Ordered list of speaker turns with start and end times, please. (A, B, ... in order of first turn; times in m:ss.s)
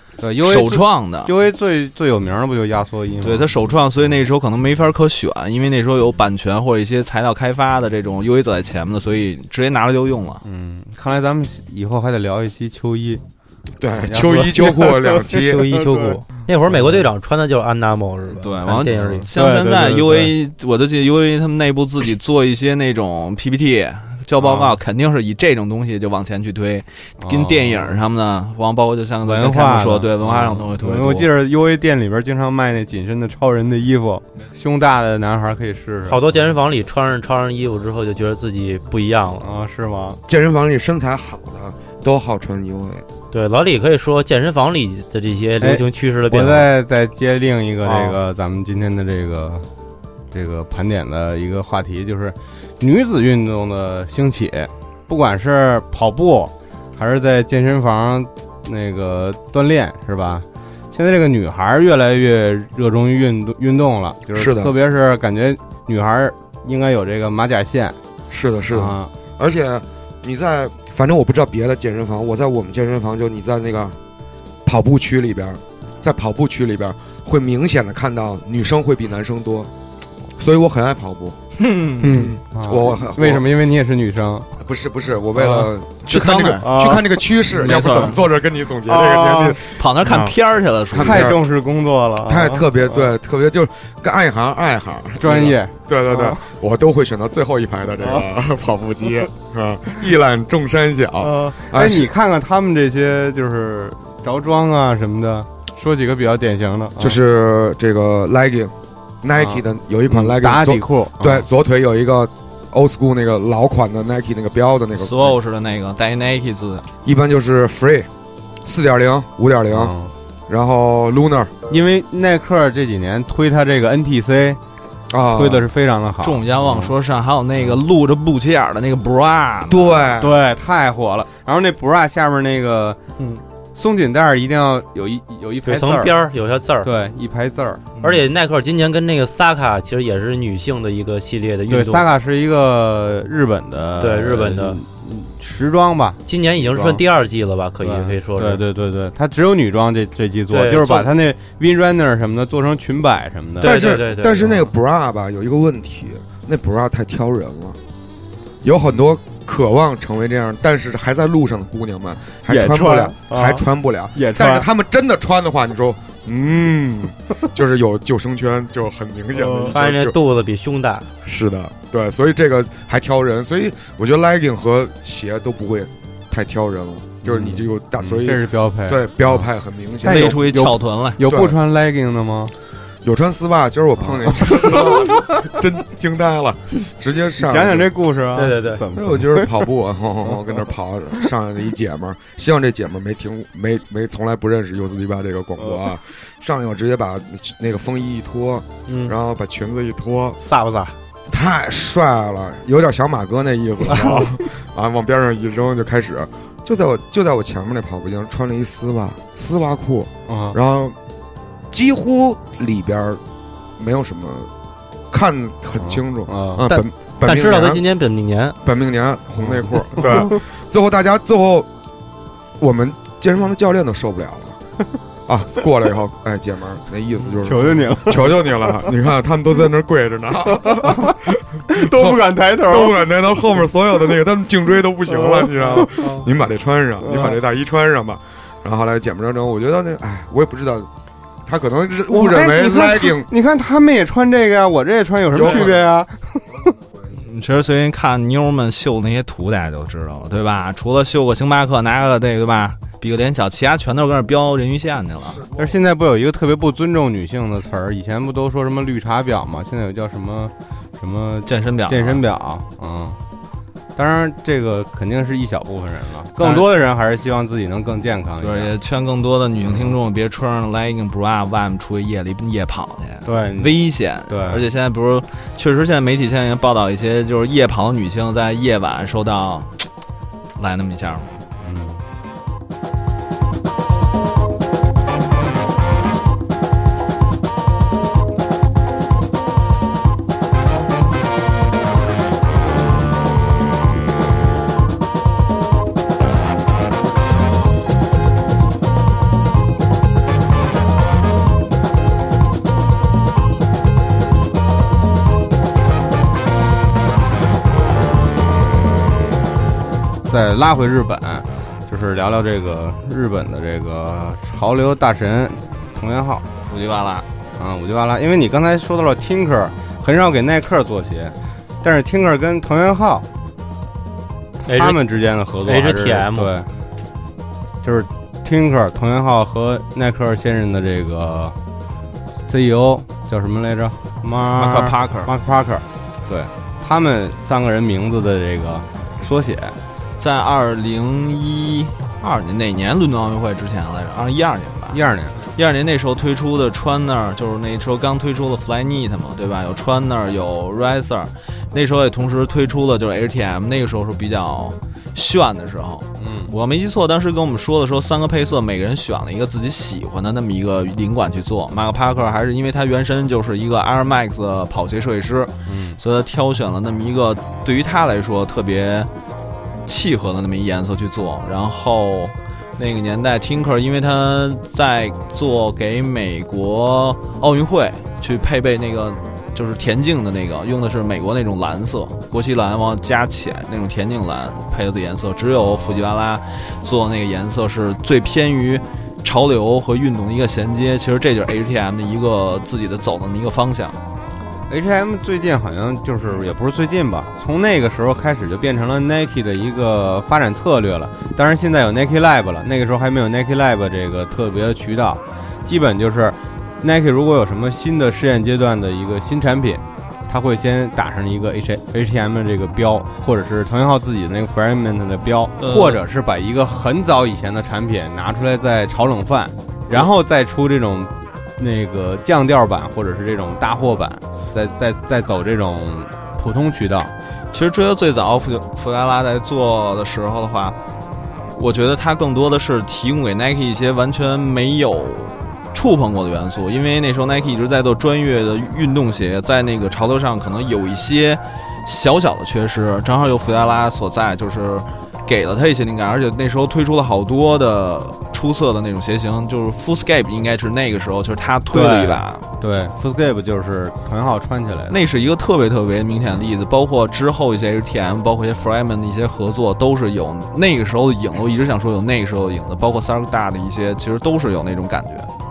0:00.2-0:03.5 A
0:00.4-0:01.3 B
0:03.2-0:10.4 B
0:10.4-0:13.2 A
0:13.8-0:15.7 C
0:14.0-0:17.1 A
0:15.3-0:19.3 D
0:18.4-0:31.3 B
0:18.8-0:20.3 A
0:24.4-0:24.8 A
0:27.2-0:28.0 A
0:29.2-0:36.2 A
0:36.1-0:39.5 D
0:39.4-0:40.2 A
0:40.3-0:43.0 C
0:43.3-0:46.7 D
0:45.6-0:49.7 A
0:47.8-0:48.2 D
0:50.3-1:08.0 A
1:04.3-1:04.7 C
1:08.3-1:14.0 C
1:08.7-1:09.1 A
1:14.6-1:19.7 C
1:20.4-1:21.4 C
1:21.6-1:22.1 B
1:22.0-1:23.4 C
1:22.0-1:24.5 A
1:24.6-1:29.8 C
1:25.3-1:25.7 A
1:26.0-1:28.2 B
1:26.6-1:28.2 A
1:28.8-1:29.6 A
1:29.7-1:31.4 B
1:30.0-1:30.3 D
1:30.9-1:31.4 C
1:30.9-1:33.1 A
1:32.2-1:42.1 C
1:35.2-1:36.4 A
1:38.0-1:38.2 A
1:41.2-1:47.2 A
1:47.0-1:55.4 C
1:49.4-1:51.5 A
1:55.0-1:56.9 B
1:57.0-1:58.1 C
1:58.6-1:59.9 C
1:59.7-2:00.1 A
2:00.5-2:01.5 C
2:01.7-2:04.6 A
2:05.1-2:05.6 C
2:05.3-2:06.9 A
2:06.2-2:10.1 B
2:09.7-2:10.4 C
2:10.2-2:13.0 A
2:13.7-2:16.1 A
2:15.6-2:16.9 D
2:16.8-2:17.8 A
2:18.0-2:22.1 D
2:21.7-2:27.0 A
2:24.0-2:24.8 D
2:26.2-2:28.6 D
2:27.8-2:33.8 A
2:30.5-2:31.1 D
2:33.6-2:34.7 D
2:33.6-2:37.8 C
2:38.6-2:50.2 C
2:42.5-2:44.7 A
2:49.3-2:49.7 A
2:49.7-2:51.1 D
2:51.2-3:00.6 C
2:57.2-2:59.5 A
3:00.0-3:01.2 B
3:00.0-3:02.5 A
3:01.2-3:01.6 C
3:03.0-3:07.9 C
3:04.0-3:05.2 A
3:07.4-3:09.7 A
3:08.3-3:08.8 D
3:08.9-3:20.4 C
3:10.2-3:10.7 A
3:15.6-3:15.9 A
3:18.9-3:19.1 D
3:20.4-3:21.0 D
3:21.3-3:31.0 C
3:30.3-3:30.6 A
3:31.7-3:33.2 C
3:33.8-3:34.5 C
3:35.1-3:37.8 C
3:35.8-3:36.7 A
3:36.6-3:38.6 D
3:38.6-3:41.7 C
3:39.4-3:40.4 A
3:42.6-3:44.6 C
3:45.3-4:00.9 C
3:47.4-3:48.9 A
3:50.5-3:51.2 A
3:51.7-3:53.1 A
3:55.1-3:56.3 A
3:57.0-3:57.4 A
4:01.4-4:03.3 C
4:02.1-4:06.6 A
4:05.3-4:05.8 C
4:07.1-4:15.4 B
4:15.5-4:23.2 A
4:21.4-4:22.2 B
4:23.9-4:28.7 A
4:26.4-4:26.7 B
4:28.4-4:39.8 B
4:29.6-4:30.0 A
4:33.2-4:34.6 A
4:40.6-4:41.4 B
4:41.6-4:42.0 A
5:10.2-5:16.4 A
5:16.6-5:17.3 B
5:17.6-5:23.3 A
5:24.6-5:26.7 A
5:24.6-5:25.0 D
5:25.6-5:26.5 D
5:27.8-5:31.6 A
5:32.5-5:39.8 A
5:34.5-5:35.3 B
5:40.2-5:45.0 B
5:44.9-5:45.4 A
5:45.5-6:09.1 B
5:56.2-5:56.5 A
6:05.7-6:06.0 A
6:09.8-6:34.0 B
6:34.7-7:07.1 A
6:55.6-6:56.0 B
7:07.5-7:10.8 B
7:11.5-7:32.4 B
7:31.7-7:35.0 A
7:34.9-7:45.3 B